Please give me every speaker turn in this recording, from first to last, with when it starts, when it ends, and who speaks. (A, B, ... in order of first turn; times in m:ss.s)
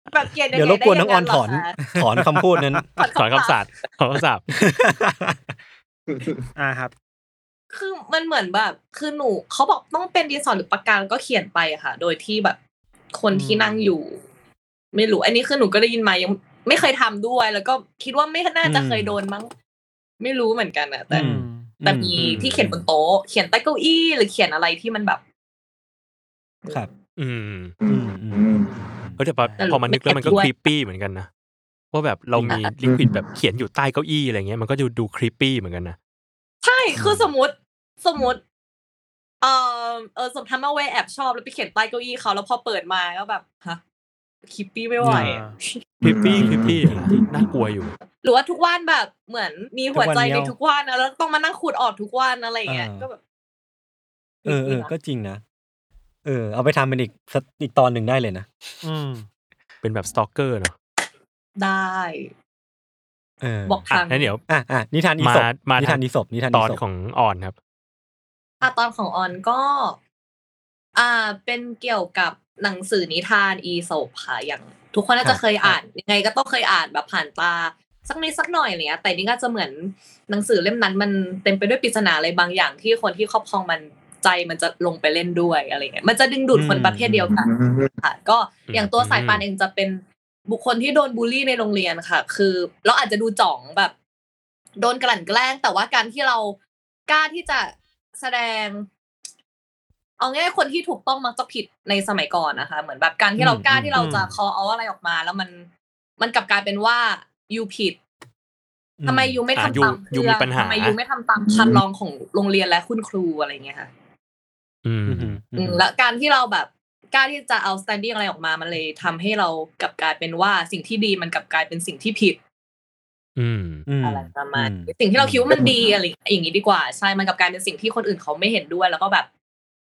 0:00.1-0:01.8 A
0:00.5-0:02.8 B
0:02.0-0:02.8 C
0:03.0-0:03.6 A
0:03.2-0:04.4 D
0:04.6-0:05.4 B
0:06.1-0:06.4 E
0:06.6-0:06.9 C
0:07.7-0:12.6 A
0:13.1-0:14.2 A
0:13.3-0:13.9 C
0:14.9-0:19.5 A
0:18.6-0:19.2 B
0:20.2-0:21.3 A
0:21.1-0:22.8 B
0:21.1-0:21.7 C
0:21.8-0:25.2 A
0:22.2-0:22.4 D
0:26.6-0:26.9 A
0:27.2-0:27.7 D
0:27.8-0:28.9 E
0:27.9-0:29.2 B
0:29.2-0:31.3 D
0:29.4-0:29.7 C
0:29.6-0:30.6 A
0:31.9-0:36.0 D
0:32.8-0:33.2 E
0:36.6-0:38.4 A
0:36.9-0:37.3 B
0:39.4-0:43.8 A
0:44.5-0:45.8 A
0:45.0-0:45.3 B
0:45.1-0:45.6 C
0:46.0-0:47.6 E
0:46.0-0:47.9 D
0:46.3-0:47.2 B
0:48.2-0:53.2 A
0:49.9-0:50.5 B
0:52.6-0:53.1 B
0:54.4-0:54.9 A
0:54.4-0:55.4 B
0:56.2-0:58.5 B
0:58.8-0:59.2 C
0:59.8-1:00.7 D
1:01.6-1:02.3 A
1:03.4-1:03.8 B
1:03.6-1:04.3 A
1:03.9-1:04.4 D
1:04.5-1:06.8 B
1:05.2-1:07.6 D
1:08.6-1:10.0 A
1:10.9-1:33.9 A
1:15.2-1:15.8 B
1:26.5-1:27.3 B
1:27.3-1:27.9 E
1:28.7-1:29.4 D
1:34.8-1:36.6 A
1:37.1-1:38.9 A
1:40.2-1:45.7 A
1:43.4-1:44.1 B
1:43.9-1:44.3 C
1:46.2-1:48.0 A
1:49.0-1:49.4 B
1:49.1-1:53.9 A
1:49.6-1:51.0 D
1:51.5-1:51.8 E
1:54.8-1:55.4 D
1:55.1-1:55.8 B
1:55.6-2:02.4 A
2:03.4-2:03.8 D
2:03.9-2:05.5 B
2:04.0-2:09.3 A
2:05.5-2:06.0 E